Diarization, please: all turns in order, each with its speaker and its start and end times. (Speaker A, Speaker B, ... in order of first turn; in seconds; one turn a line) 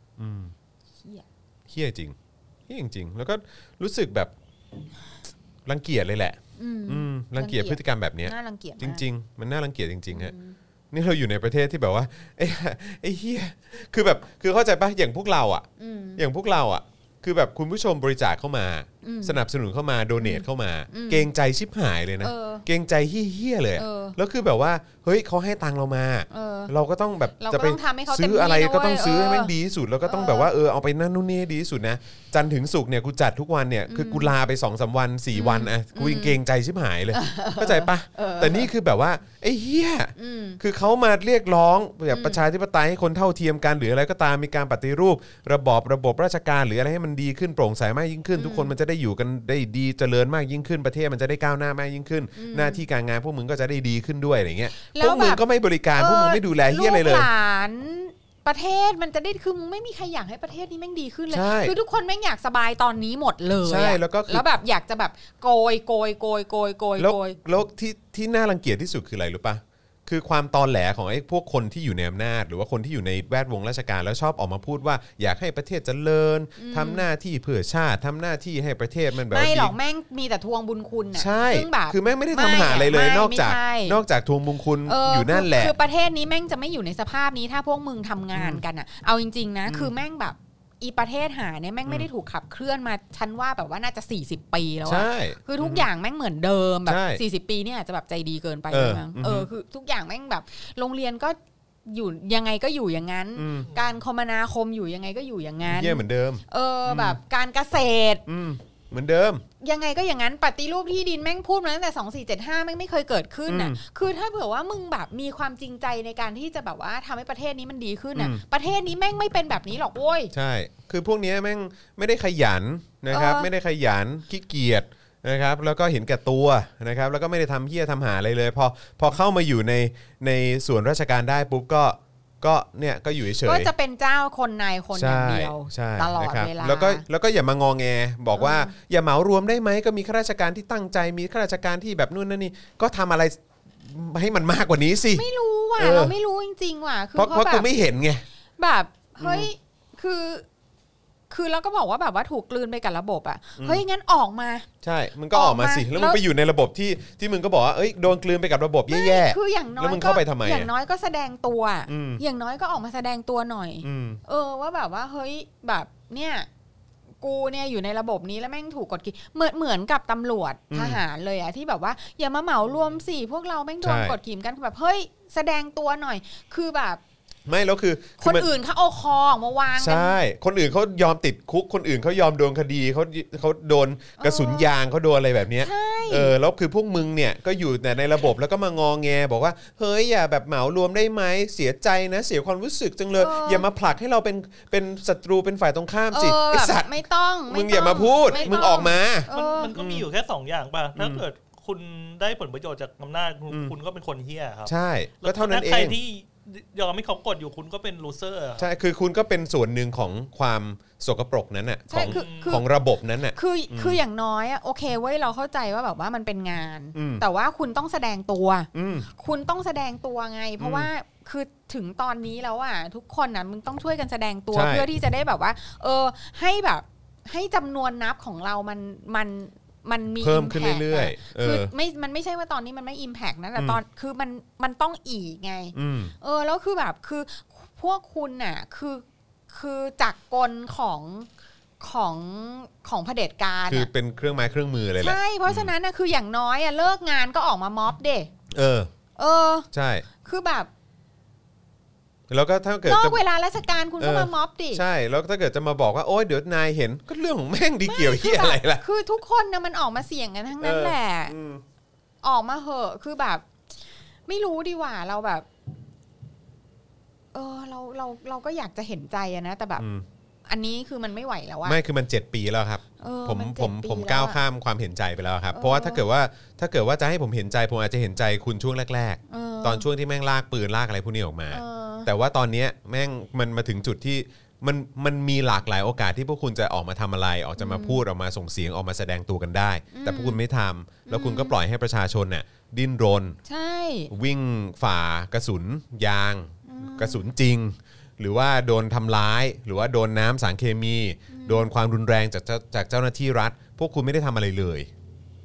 Speaker A: 0.2-0.5
Speaker A: 1.7-2.1
Speaker A: 2.7-4.3
Speaker A: 5.7-10.3
Speaker B: 6.5-9.0
Speaker B: 10.1-10.6
Speaker A: 10.9-57.3
Speaker B: 15.8-16.2
Speaker B: 19.0-19.4
Speaker B: 20.2-21.3
Speaker B: 22.2-22.6
Speaker B: 23.8-24.2
Speaker B: 26.3-26.7
Speaker B: 27.4-29.5
Speaker B: 30.1-30.5
Speaker B: 33.9-34.3
Speaker B: 35.3-36.4
Speaker B: 37.1-38.7
Speaker B: 40.2-40.6
Speaker B: 42.1-42.4
Speaker B: 48.4-48.7
Speaker B: 52.4-52.8
Speaker B: 54.7-55.4
Speaker B: 55.9-67.4
Speaker A: 61.3-61.7
Speaker A: 63.6-64.4
Speaker A: 67.0-79.7
Speaker B: 76.6-77.0
Speaker B: 79.3-84.0
Speaker A: 81.1-85.7
Speaker B: 84.8-108.2
Speaker A: 88.3-88.6
Speaker A: 89.7-89.9
Speaker A: 94.8-95.9
Speaker A: 96.9-97.2
Speaker A: 98.7-99.5
Speaker A: 103.3-103.7
Speaker A: 105.7-107.2
Speaker A: 108.3-109.4
Speaker B: 109.6-120.3
Speaker A: 113.5-113.8
Speaker A: 118.1-118.4
Speaker A: 120.3-133.7
Speaker B: 123.1-123.5
Speaker B: 133.4-137.0
Speaker A: 134.9-145.2
Speaker B: 138.3-138.7
Speaker B: 145.1-147.7
Speaker A: 145.8-146.1
Speaker A: 147.1-148.2
Speaker B: 148.6-150.4
Speaker A: 149.2-149.5
Speaker B: 151.3-154.7
Speaker A: 154.8-160.7
Speaker B: 155.3-156.2
Speaker B: 158.9-166.5
Speaker A: 161.9-162.2
Speaker A: 163.8-164.2
Speaker B: 167.2-177.0
Speaker A: 170.7-171.0
Speaker A: 173.8-174.2
Speaker A: 177.4-178.5
Speaker B: 178.2-180.2
Speaker A: 179.8-197.0
Speaker B: 184.2-184.7
Speaker B: 185.6-186.3
Speaker B: 193.2-193.7
Speaker B: 196.1-199.7
Speaker A: 197.5-200.1
Speaker C: 198.3-208.7
Speaker A: 200.9-201.2
Speaker A: 204.7-206.0
Speaker A: 208.6-214.0
Speaker B: 211.9-212.6
Speaker C: 212.1-212.6
Speaker B: 213.3-241.3
Speaker A: 216.9-217.2
Speaker A: 218.7-219.1
Speaker A: 220.6-220.9
Speaker A: 224.5-224.9
Speaker A: 230.2-231.7
Speaker A: 235.7-236.1
Speaker B: 241.8-243.9
Speaker A: 243.7-245.7
Speaker B: 245.0-248.3
Speaker A: 248.5-248.9
Speaker B: 249.2-249.7
Speaker A: 249.7-250.1
Speaker B: 250.2-250.7
Speaker A: 252.3-253.2
Speaker B: 252.8-254.8
Speaker A: 254.0-258.8
Speaker B: 257.9-261.3
Speaker A: 260.6-261.6
Speaker B: 262.2-263.4
Speaker B: 264.3-265.4
Speaker B: 267.3-269.8
Speaker A: 269.8-270.0
Speaker B: 270.5-271.8
Speaker A: 271.6-293.4
Speaker B: 273.0-274.4
Speaker B: 275.5-276.0
Speaker B: 279.3-279.9
Speaker B: 281.5-282.1
Speaker B: 287.6-288.0
Speaker B: 289.9-290.4
Speaker B: 291.1-291.5
Speaker B: 293.4-294.1
Speaker A: 294.1-304.9
Speaker B: 296.6-297.3
Speaker B: 301.3-301.7